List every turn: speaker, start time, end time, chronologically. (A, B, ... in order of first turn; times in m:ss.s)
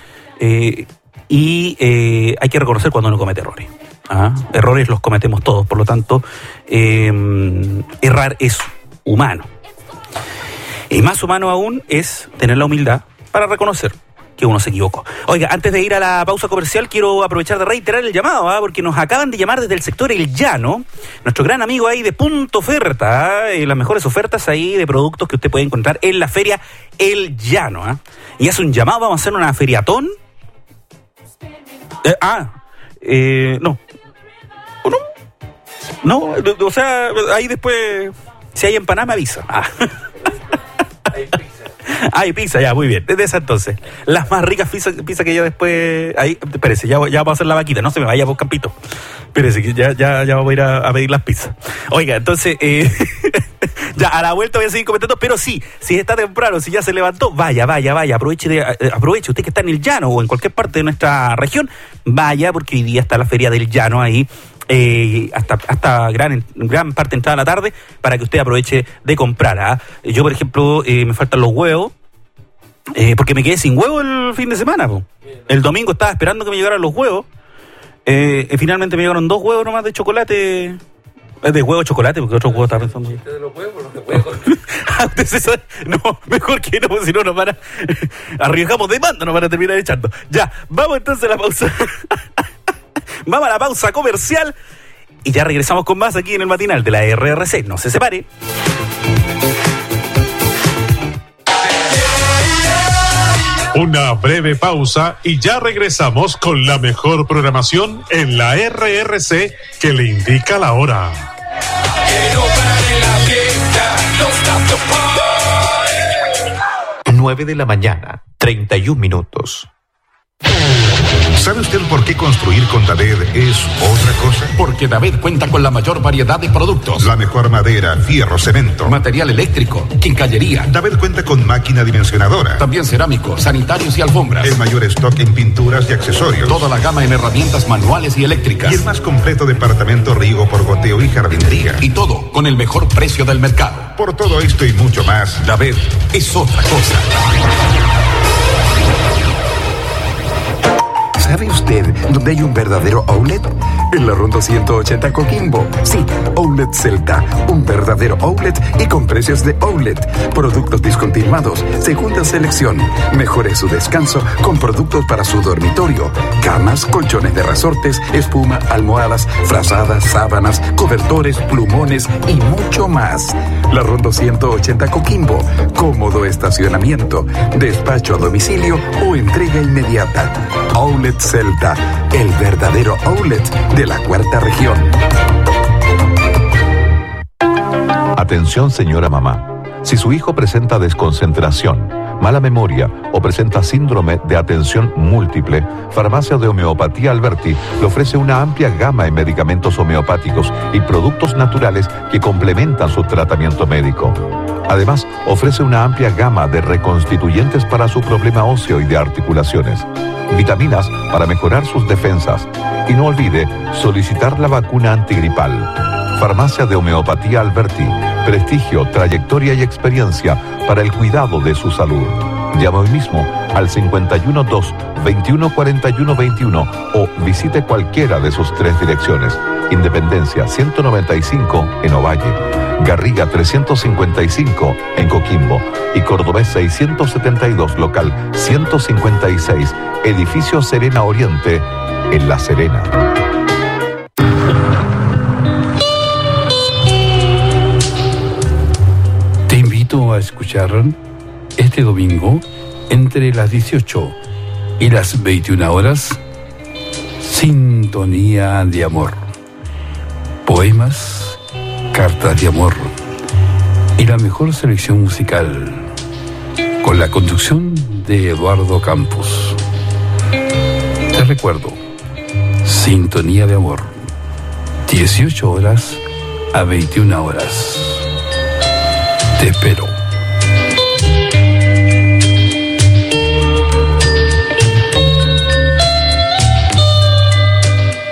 0:00.4-0:09.5 A
0:10.9-0:30.1 A
0:32.0-0:33.8 A
0:36.0-0:40.0 A
0:41.8-0:48.7 A
0:49.3-1:11.9 A
1:12.9-1:17.3 A
1:18.1-1:20.8 A
1:21.4-1:23.3 A
1:24.0-1:32.2 A
1:33.3-1:34.6 A
1:35.2-1:38.3 A
1:43.7-1:51.3 B
1:57.1-1:59.7 C
2:01.4-2:04.5 D
2:04.6-2:07.0 E
2:07.0-2:09.0 D
2:08.9-2:10.7 E
2:10.7-2:12.6 D
2:12.6-2:14.6 E
2:14.4-2:16.6 D
2:16.5-2:18.9 E
2:18.6-2:21.8 D
2:21.8-2:23.9 E
2:24.0-2:25.4 D
2:25.4-2:27.1 E
2:31.2-3:04.9 F
3:08.2-4:02.9 G
4:09.5-4:11.0 H
4:11.6-4:14.2 H
4:14.8-4:16.2 H
4:17.2-4:19.2 H
4:20.4-4:21.4 H
4:21.9-4:22.9 H
4:24.0-4:25.9 H
4:26.8-4:29.6 H
4:31.1-4:31.8 H
4:32.6-4:33.9 H
4:34.9-4:36.0 H
4:36.5-4:38.1 H
4:39.4-4:40.0 H